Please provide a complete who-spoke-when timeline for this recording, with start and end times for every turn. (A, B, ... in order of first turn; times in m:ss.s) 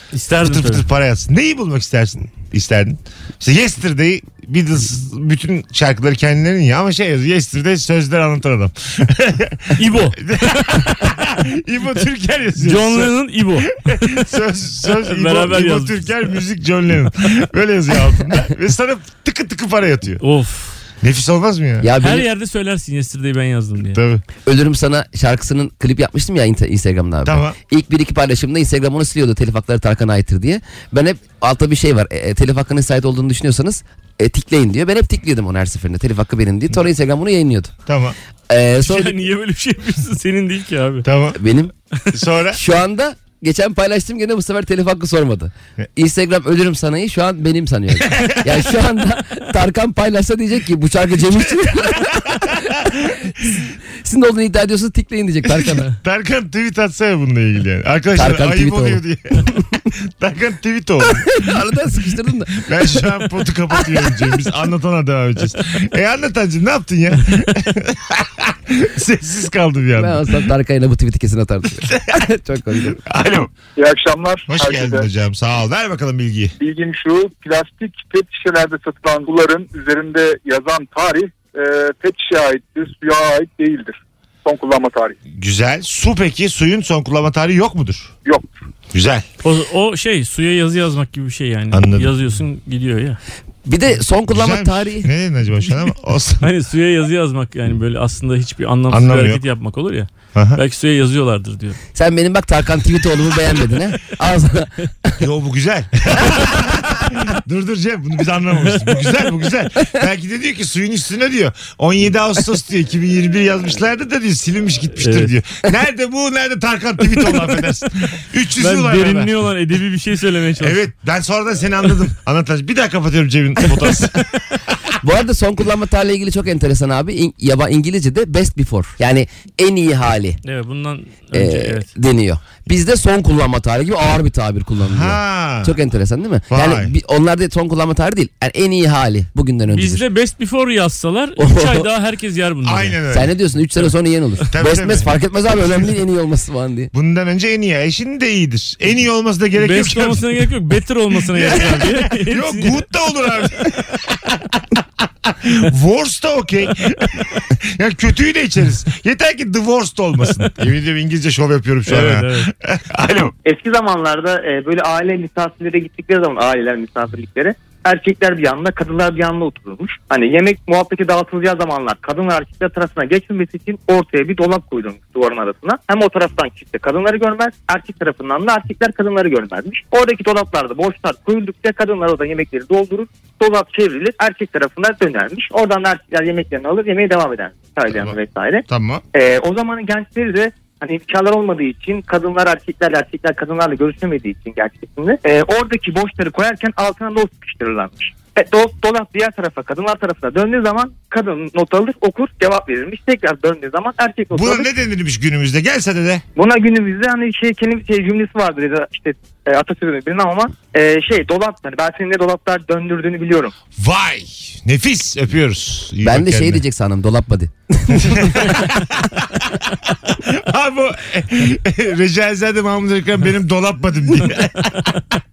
0:00.1-0:00.8 A
0:00.4-0:20.2 B
0:09.8-0:11.1 A
0:12.6-0:14.2 A
0:14.8-0:16.4 A
0:20.2-0:20.8 A
0:21.0-0:21.9 B
0:21.8-0:22.3 C
0:22.0-0:24.0 A
0:23.9-0:24.2 B
0:24.4-0:37.7 C
0:27.2-0:27.6 B
0:37.9-0:38.2 B
0:38.5-0:39.2 C
0:38.8-0:41.1 A
0:41.0-0:41.4 B
0:41.4-0:41.7 C
0:42.1-0:42.6 B
0:42.5-0:52.6 C
0:48.1-0:48.4 B
0:52.2-0:53.2 B
0:54.0-0:55.9 C
0:56.0-0:59.5 B
0:58.2-0:59.0 C
1:00.2-1:01.4 B
1:01.1-1:02.7 C
1:02.5-1:10.2 B
1:03.7-1:04.3 C
1:10.0-1:13.0 C
1:13.0-1:13.5 B
1:13.8-1:15.1 D
1:14.5-1:16.5 B
1:16.6-1:25.2 D
1:25.3-1:28.1 B
1:28.9-1:29.2 B
1:29.4-1:33.2 A
1:31.7-1:32.1 B
1:33.7-1:35.1 C
1:34.3-1:36.5 B
1:36.4-1:41.8 A
1:38.9-1:39.4 B
1:40.4-1:40.6 B
1:42.0-1:45.2 C
1:45.2-1:59.3 B
1:55.0-1:55.3 A
1:58.6-2:00.8 A
2:00.6-2:04.3 B
2:05.0-2:10.4 C
2:10.4-2:11.9 A
2:11.3-2:20.0 C
2:14.9-2:15.8 B
2:16.5-2:16.9 B
2:19.7-2:23.0 A
2:21.4-2:21.9 C
2:22.6-2:23.4 B
2:23.1-2:26.9 C
2:24.5-2:25.1 B
2:26.9-2:30.3 B
2:29.6-2:32.8 A
2:31.3-2:34.6 B
2:35.2-2:43.3 B
2:41.9-2:42.5 A
2:43.4-3:24.7 E
3:07.9-3:08.2 B
3:08.7-3:09.0 B
3:24.3-3:26.2 B
3:26.4-3:33.5 E
3:33.8-3:36.6 B
3:36.0-3:38.6 C
3:38.0-3:39.5 B
3:40.1-3:44.9 B